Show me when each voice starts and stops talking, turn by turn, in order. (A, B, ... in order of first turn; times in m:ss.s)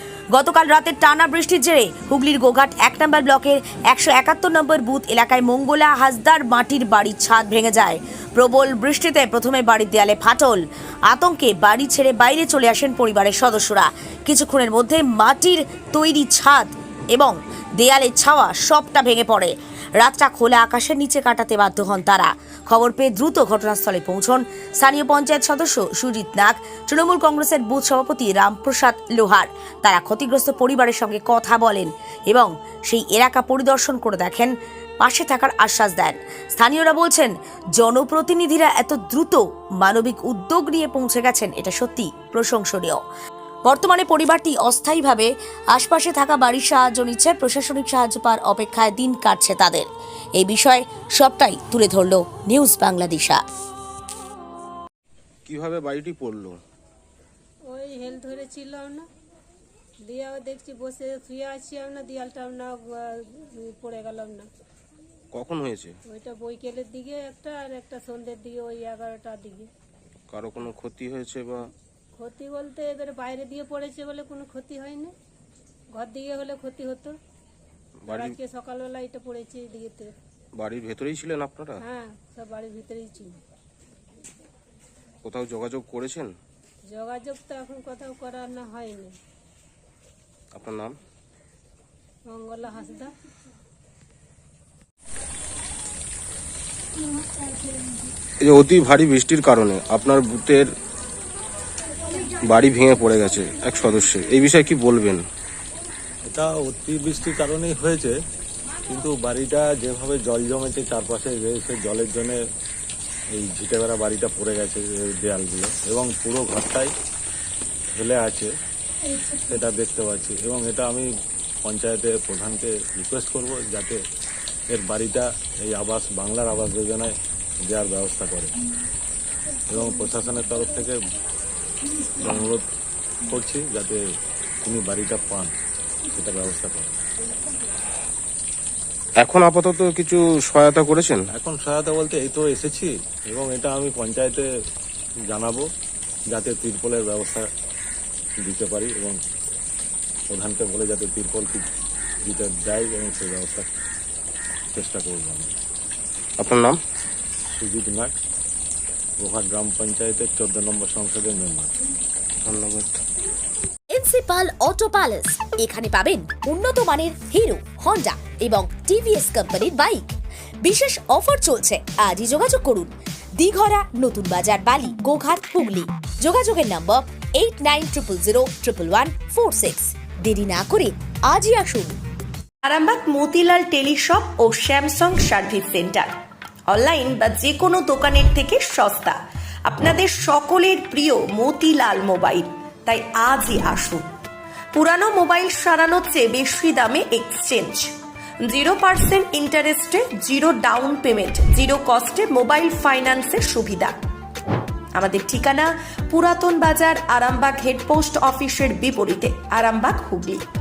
0:00.3-0:43.0 A
0:43.7-0:53.4 A
0:55.5-0:56.6 B
0:57.7-0:59.0 C
1:00.0-1:04.5 C
1:05.3-1:06.0 B
1:06.1-1:09.7 C
1:10.3-1:11.7 B
1:12.2-1:15.1 C
1:15.9-1:17.2 C
1:18.0-1:18.4 B
1:18.1-1:20.1 C
1:20.6-1:21.8 B
1:21.8-1:23.4 C
1:25.2-1:26.3 B
1:26.9-1:29.1 C
1:30.5-1:31.0 B
1:32.3-1:33.1 C
1:38.4-1:40.7 B
1:42.3-1:45.2 B
1:46.3-1:48.2 D
1:48.9-1:52.4 D
1:53.3-1:56.9 D
1:58.0-1:58.5 D
1:59.3-2:01.1 D
2:01.6-2:04.0 D
2:04.7-2:08.6 D
2:09.7-2:11.0 D
2:12.1-2:12.6 D
2:13.3-2:14.0 D
2:14.6-2:15.5 D
2:16.0-2:17.0 D
2:19.2-2:21.2 B
2:21.3-2:24.5 D
2:25.3-2:25.6 D
2:26.3-2:27.5 D
2:28.4-2:29.2 D
2:30.3-2:31.7 D
2:32.2-2:33.7 D
2:34.7-2:35.5 D
2:36.4-2:36.8 B
2:37.5-2:38.1 D
2:39.2-2:41.7 D
2:42.4-2:43.0 B
2:43.9-2:50.1 A
2:50.6-3:01.9 A
3:02.6-3:06.1 E
3:06.7-3:14.1 E
3:14.7-3:23.9 E
3:24.9-3:30.4 E